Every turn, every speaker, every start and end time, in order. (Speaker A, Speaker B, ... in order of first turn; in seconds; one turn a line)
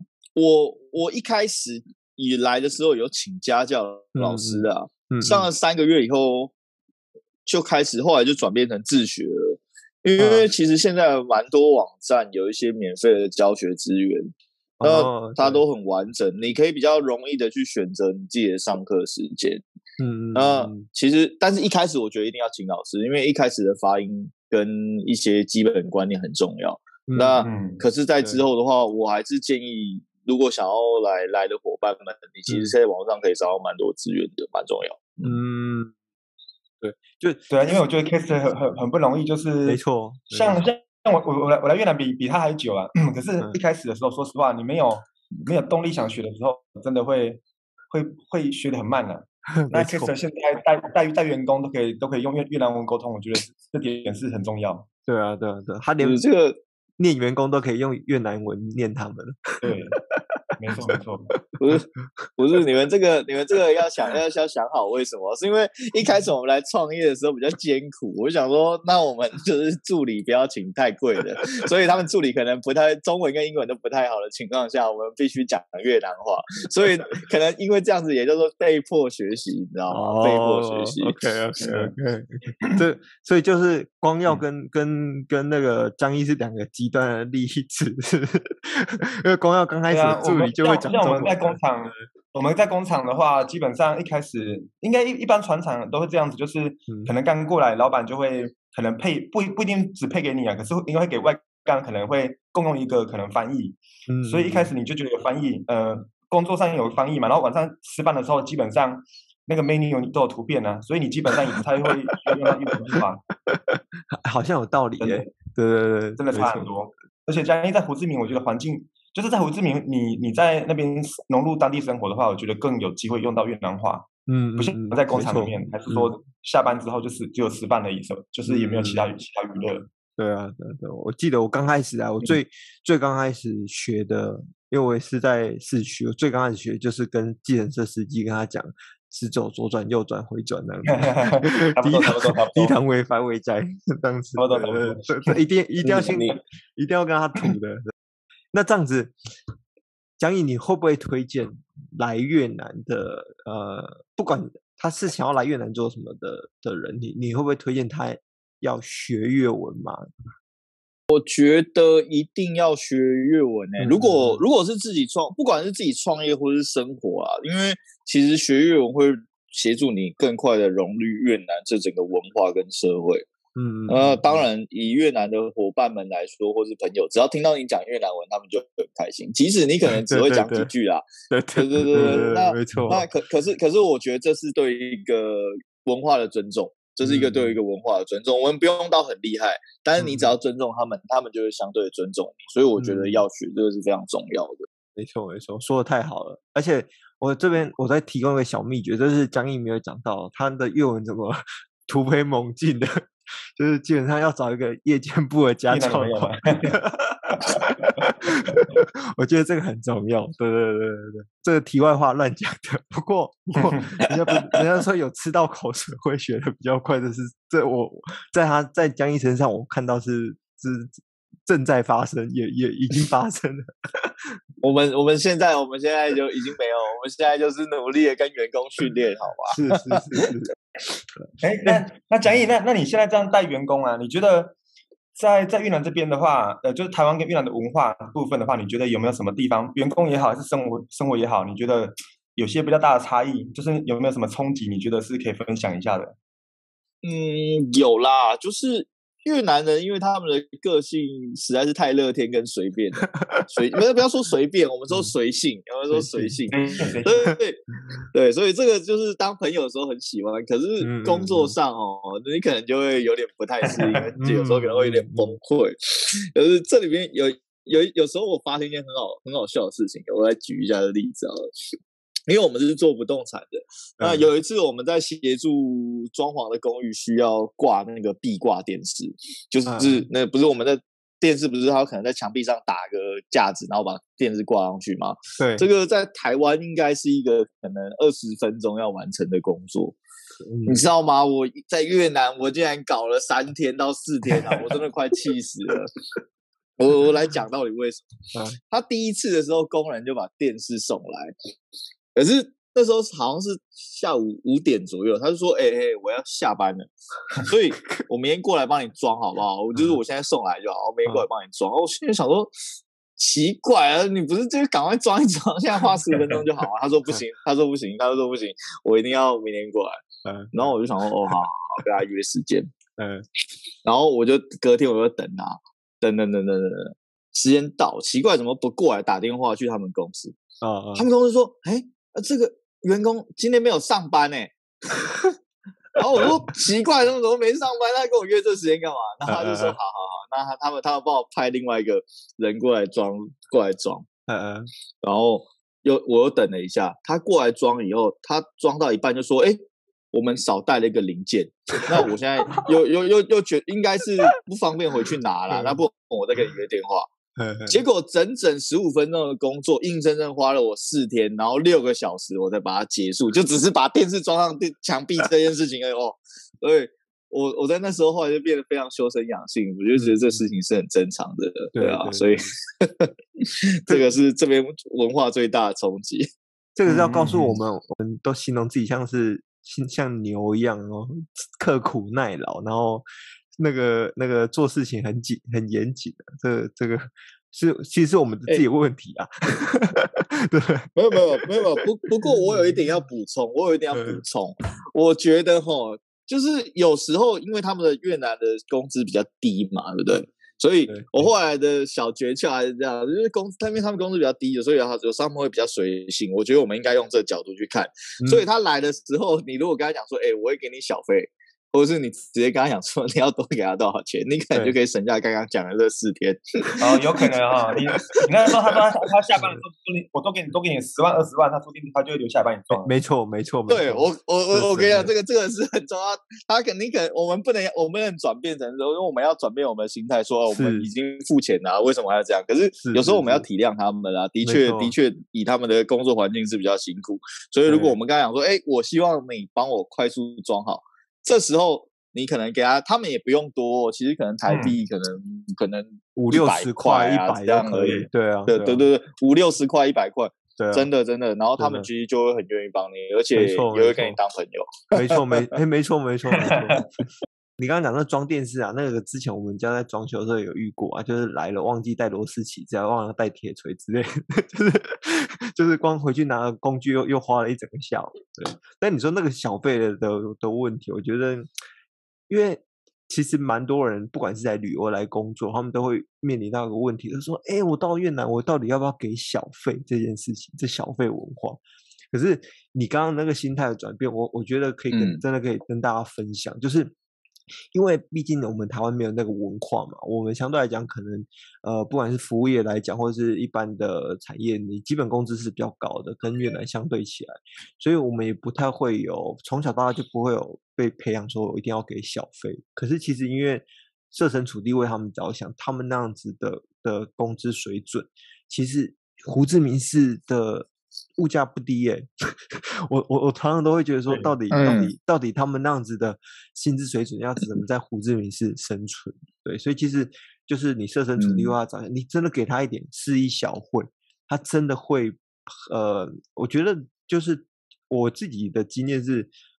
Speaker A: 0.4-6.5
Speaker B: 4.2-5.5
Speaker A: 7.5-19.6
Speaker B: 10.2-10.5
Speaker B: 14.8-15.6
Speaker B: 20.0-20.9
Speaker A: 20.4-35.4
Speaker B: 27.1-27.5
Speaker C: 27.4-27.8
Speaker B: 35.2-35.9
Speaker B: 36.8-37.5
Speaker C: 37.5-39.8
Speaker B: 39.6-40.6
Speaker C: 40.3-54.9
Speaker B: 49.6-50.1
Speaker B: 55.1-56.2
Speaker A: 56.0-56.6
Speaker B: 57.0-60.9
Speaker C: 59.6-60.0
Speaker C: 60.6-61.4
Speaker A: 61.6-81.2
Speaker B: 79.9-91.6
Speaker C: 81.6-81.9
Speaker C: 89.9-113.2
Speaker B: 104.1-104.7
Speaker B: 111.4-116.7
Speaker C: 115.0-115.3
Speaker C: 116.2-124.1
Speaker B: 124.3-126.1
Speaker C: 124.6-129.9
Speaker B: 128.5-129.0
Speaker B: 130.2-147.8
Speaker C: 140.9-142.8
Speaker C: 144.4-146.3
Speaker B: 148.5-149.2
Speaker B: 150.2-160.1
Speaker A: 161.1-173.3
Speaker B: 163.8-164.4
Speaker B: 173.6-174.4
Speaker A: 173.9-194.7
Speaker B: 179.9-180.7
Speaker B: 181.3-183.1
Speaker B: 187.0-187.6
Speaker B: 190.0-190.3
Speaker B: 192.8-193.2
Speaker B: 195.0-224.4
Speaker C: 205.7-206.8
Speaker C: 207.4-207.7
Speaker C: 213.6-213.8
Speaker A: 224.6-230.3
Speaker B: 229.5-230.5
Speaker C: 231.4-234.6
Speaker C: 235.2-246.2
Speaker A: 247.0-271.5
Speaker B: 253.2-253.5
Speaker B: 255.9-257.4
Speaker C: 256.5-257.2
Speaker B: 260.8-261.5
Speaker B: 264.2-265.4
Speaker A: 272.3-290.0
Speaker B: 274.0-274.3
Speaker B: 279.7-280.1
Speaker B: 285.4-285.7
Speaker B: 290.4-290.8
Speaker A: 290.7-295.9
Speaker A: 296.8-298.1
Speaker A: 298.6-301.4
Speaker A: 302.1-312.5
Speaker A: 313.2-322.7
Speaker B: 320.2-320.8
Speaker B: 323.0-323.2
Speaker A: 323.9-330.4
Speaker B: 330.6-331.1
Speaker A: 330.9-335.3
Speaker A: 335.9-344.1
Speaker B: 339.3-339.8
Speaker B: 344.3-344.7
Speaker A: 345.0-349.6
Speaker A: 350.1-357.1
Speaker B: 355.5-355.8
Speaker B: 357.4-357.8
Speaker A: 357.7-376.3
Speaker B: 369.9-370.4
Speaker B: 371.8-372.5
Speaker B: 376.8-383.1
Speaker C: 376.9-377.5
Speaker B: 383.6-390.9
Speaker A: 390.9-417.0
Speaker B: 392.3-392.8
Speaker B: 393.9-394.2
Speaker B: 400.9-401.3
Speaker C: 416.8-422.9
Speaker B: 422.7-425.1
Speaker A: 423.7-455.5
Speaker B: 430.6-430.9
Speaker B: 432.8-433.5
Speaker B: 434.4-434.9
Speaker B: 437.7-438.0
Speaker C: 444.5-444.8
Speaker B: 446.2-448.9
Speaker B: 450.6-450.9
Speaker B: 451.6-451.9
Speaker B: 453.3-454.2
Speaker B: 454.9-456.9
Speaker C: 456.4-456.8
Speaker B: 457.6-471.5
Speaker B: 472.3-486.9
Speaker A: 484.9-485.2
Speaker B: 487.7-529.3
Speaker A: 514.1-514.9
Speaker A: 521.2-521.5